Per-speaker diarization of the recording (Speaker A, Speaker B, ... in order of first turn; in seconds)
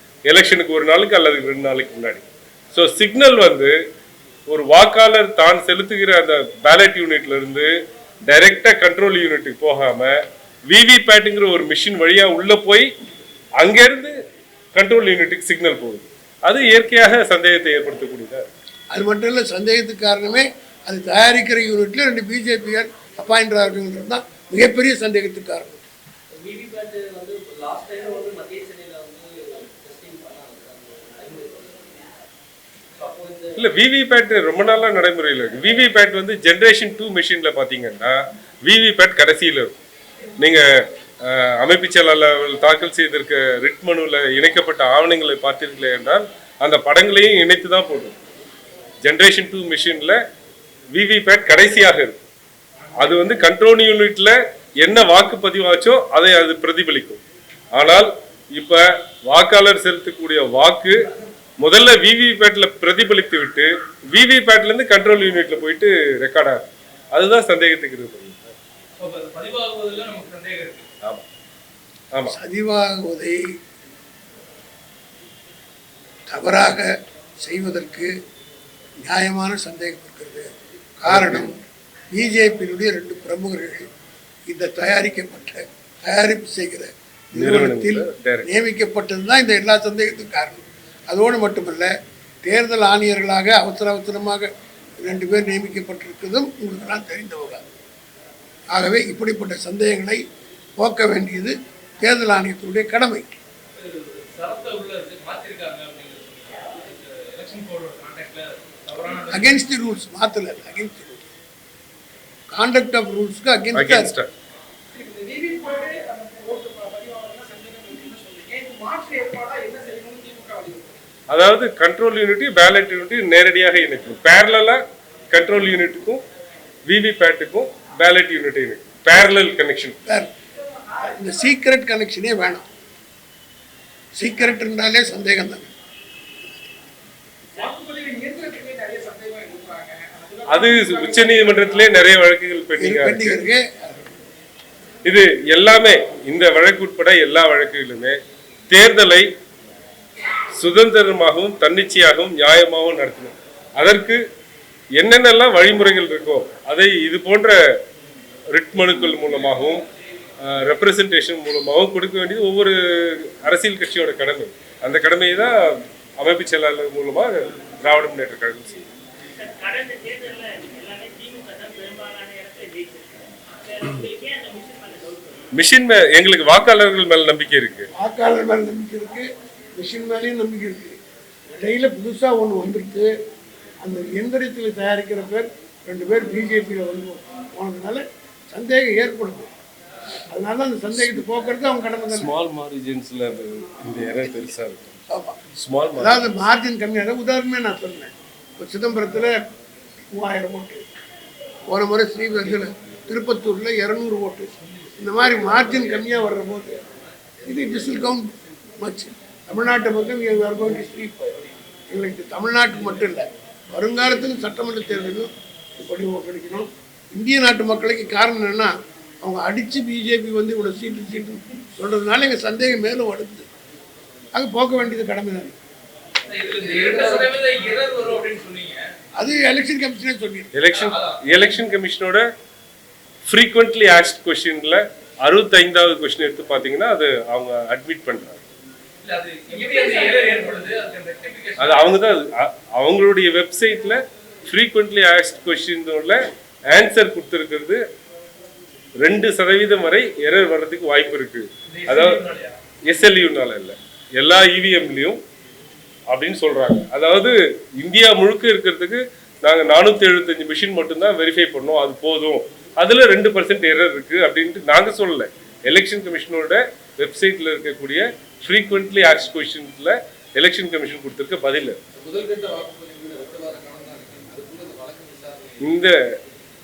Speaker A: 0.3-3.7, 4.5-7.7, 8.2-12.9, 13.6-14.1, 14.7-18.5, 33.5-39.8, 41.2-48.2, 49.0-50.2, 50.9-52.2, 52.9-57.2, 57.7-61.0, 61.6-68.5, 81.1-81.5, 87.3-88.5, 113.7-114.3, 121.3-124.8, 125.3-126.2, 126.8-130.0, 140.5-143.4, 145.0-148.2, 148.7-149.3, 150.5-154.2, 154.9-157.6, 158.5-159.8, 160.4-168.8, 175.5-177.9, 192.1-195.0, 195.5-196.4, 230.5-232.2, 233.2-238.4, 241.6-246.2, 246.7-247.8, 249.0-252.2, 252.8-255.2, 256.1-271.8, 275.6-276.2
Speaker B: 18.9-25.8, 72.3-73.4, 76.3-76.9, 77.4-78.1, 79.0-83.8, 84.5-91.9, 92.4-94.5, 95.0-97.6, 98.7-100.2, 100.8-103.4, 109.3-111.3, 112.5-114.1, 130.9-132.7, 134.1-135.7, 142.8-144.1, 177.9-181.0, 181.5-183.1, 183.8-189.5, 190.3-192.3, 195.1-195.4, 196.0-199.3, 200.1-200.9, 201.7-206.8, 207.4-211.4, 211.9-223.5, 224.3-225.5, 226.7-227.3, 229.2-230.5
Speaker C: 26.3-32.0, 33.0-33.6, 69.0-70.9, 103.8-109.6, 226.3-228.9, 230.7-231.3, 239.0-242.0, 251.7-252.6, 271.9-275.8
Speaker D: 114.9-120.9, 137.6-141.5
Speaker E: 169.3-175.5